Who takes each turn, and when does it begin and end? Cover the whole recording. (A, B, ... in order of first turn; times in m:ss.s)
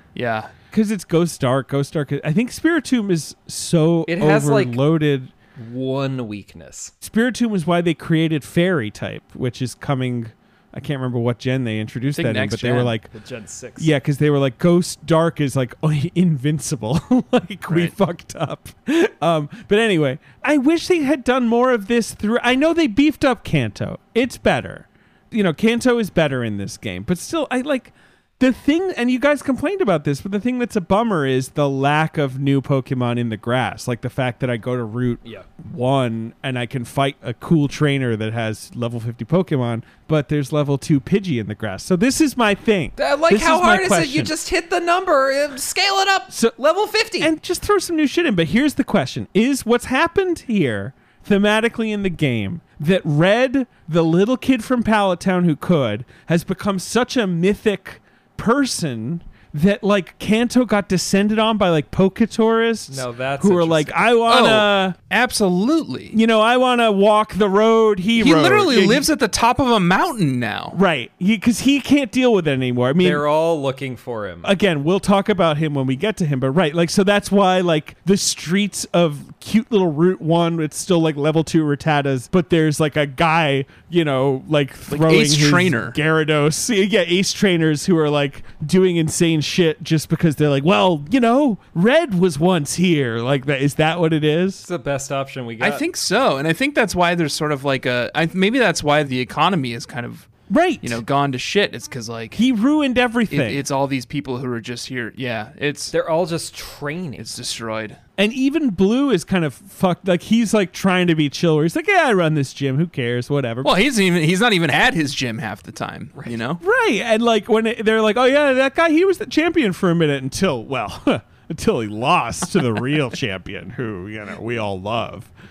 0:00.1-0:00.5 A
0:00.7-0:05.3 B
0:04.1-0:04.8 C
0:05.6-0:06.9 C
0:07.0-0:13.1 B
0:12.1-0:12.9 A
0:13.1-0:13.9 C
0:13.8-0:44.3 B
0:17.7-0:17.9 A
0:43.0-0:47.3 C
0:46.3-0:46.6 B
0:47.2-1:05.0 B
1:02.9-1:04.1 C
1:04.3-1:06.2 A
1:06.1-1:09.1 B
1:08.2-1:10.8 A
1:10.7-1:13.2 B
1:13.0-1:14.5 C
1:14.4-1:34.6 B
1:24.9-1:26.0 A
1:34.6-1:35.8 C
1:35.6-1:40.3 A
1:40.5-1:41.0 B
1:40.8-1:42.4 A
1:42.4-1:43.6 B
1:43.3-1:45.9 A
1:45.9-1:47.3 C
1:47.2-1:48.0 A
1:48.2-1:53.7 B
1:53.6-1:56.6 A
1:56.6-2:05.3 B